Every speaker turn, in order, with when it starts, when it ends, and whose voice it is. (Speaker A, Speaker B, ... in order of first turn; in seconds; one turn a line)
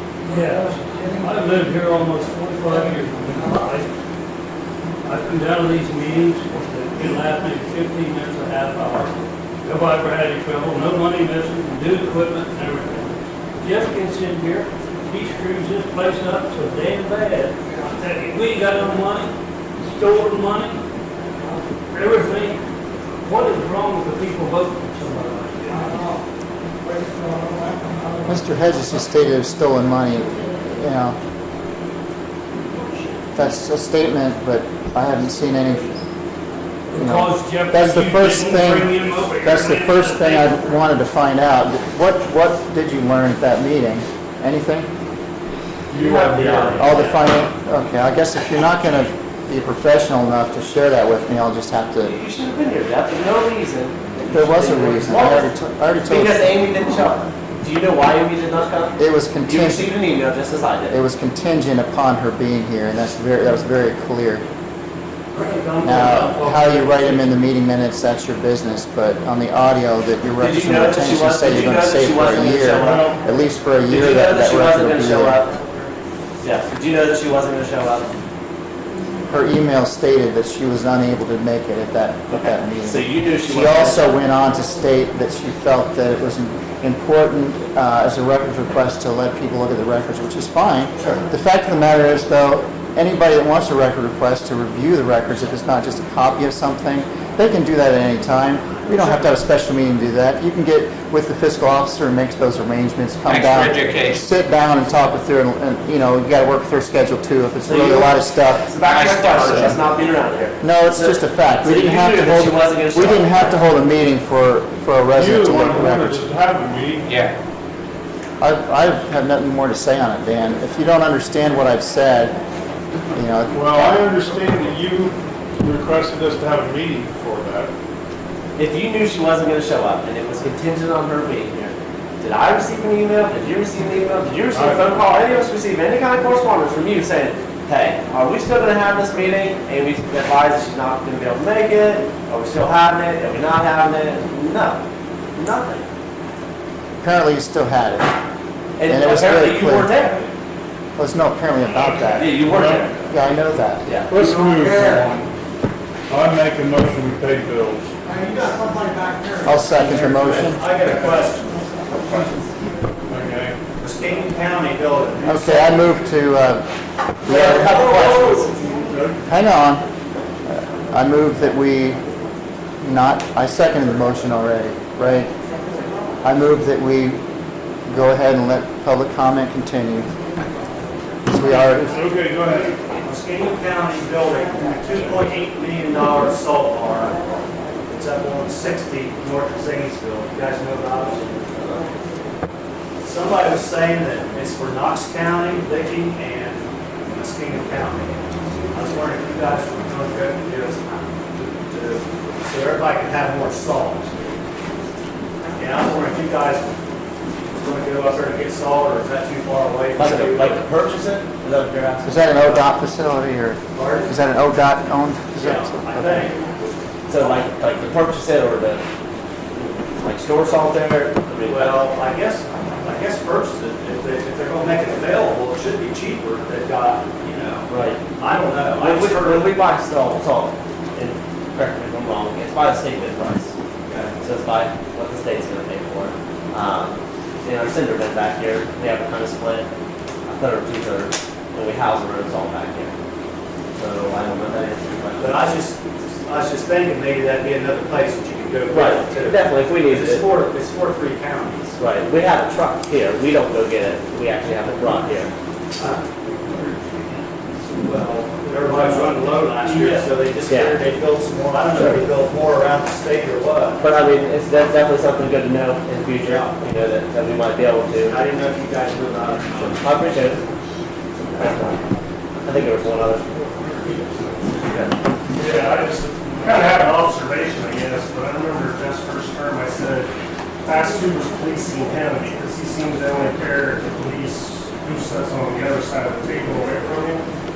Speaker A: 0.2-3.9
Speaker A: 5.0-9.1
Speaker A: 9.7-20.8
Speaker A: 21.9-22.6
Speaker A: 23.2-25.8
Speaker B: 28.3-31.2
Speaker B: 33.4-36.0
Speaker A: 36.9-40.7
Speaker B: 37.0-44.9
Speaker C: 45.9-47.0
Speaker D: 45.9-47.2
Speaker B: 46.8-52.1
Speaker D: 52.0-55.5
Speaker B: 54.3-56.5
Speaker D: 56.1-61.0
Speaker B: 59.0-60.0
Speaker B: 60.9-64.5
Speaker A: 65.3-67.3
Speaker B: 65.8-75.4
Speaker D: 70.4-73.2
Speaker C: 72.8-73.2
Speaker D: 73.9-75.6
Speaker D: 76.4-78.1
Speaker B: 79.3-108.7
Speaker D: 82.3-84.2
Speaker E: 103.3-104.3
Speaker D: 107.7-113.4
Speaker E: 108.8-109.8
Speaker B: 109.5-109.8
Speaker B: 110.6-116.2
Speaker C: 115.1-117.1
Speaker E: 117.0-117.3
Speaker B: 118.4-122.4
Speaker B: 123.1-124.1
Speaker C: 123.5-127.7
Speaker D: 128.6-144.8
Speaker C: 134.5-135.0
Speaker D: 145.3-145.8
Speaker B: 147.0-148.1
Speaker D: 148.8-150.3
Speaker B: 148.9-150.1
Speaker B: 151.0-152.4
Speaker D: 152.1-153.1
Speaker C: 152.3-152.9
Speaker B: 153.1-153.9
Speaker D: 153.9-154.1
Speaker C: 154.1-155.3
Speaker C: 156.1-157.9
Speaker F: 158.1-161.7
Speaker B: 159.4-160.6
Speaker C: 163.1-163.6
Speaker F: 163.8-166.1
Speaker B: 165.2-166.7
Speaker B: 167.2-168.4
Speaker D: 167.3-168.5
Speaker C: 168.8-169.1
Speaker B: 169.3-169.9
Speaker B: 170.5-172.0
Speaker B: 172.8-175.3
Speaker B: 176.2-177.2
Speaker B: 177.9-180.1
Speaker B: 181.3-182.0
Speaker C: 181.8-182.8
Speaker F: 183.0-187.2
Speaker F: 187.9-191.6
Speaker F: 193.0-198.2
Speaker F: 198.7-204.1
Speaker F: 205.6-206.7
Speaker F: 207.5-210.6
Speaker D: 210.0-212.7
Speaker B: 212.1-216.2
Speaker F: 213.8-214.2
Speaker F: 215.4-216.5
Speaker D: 217.1-218.8
Speaker D: 219.6-221.8
Speaker F: 221.4-229.5
Speaker D: 227.7-228.0
Speaker D: 228.8-233.5
Speaker F: 233.9-234.2
Speaker D: 234.2-239.7
Speaker D: 240.3-242.9
Speaker D: 243.8-245.4
Speaker F: 245.2-251.8
Speaker D: 248.7-250.3
Speaker D: 251.8-255.3
Speaker F: 257.7-263.9
Speaker G: 258.7-259.9
Speaker D: 259.8-260.8
Speaker D: 263.8-268.2
Speaker F: 266.2-266.5
Speaker F: 268.0-269.8
Speaker D: 269.6-270.4
Speaker D: 271.4-271.8
Speaker D: 272.4-273.4
Speaker D: 274.4-275.0
Speaker G: 275.4-280.1
Speaker G: 280.6-287.2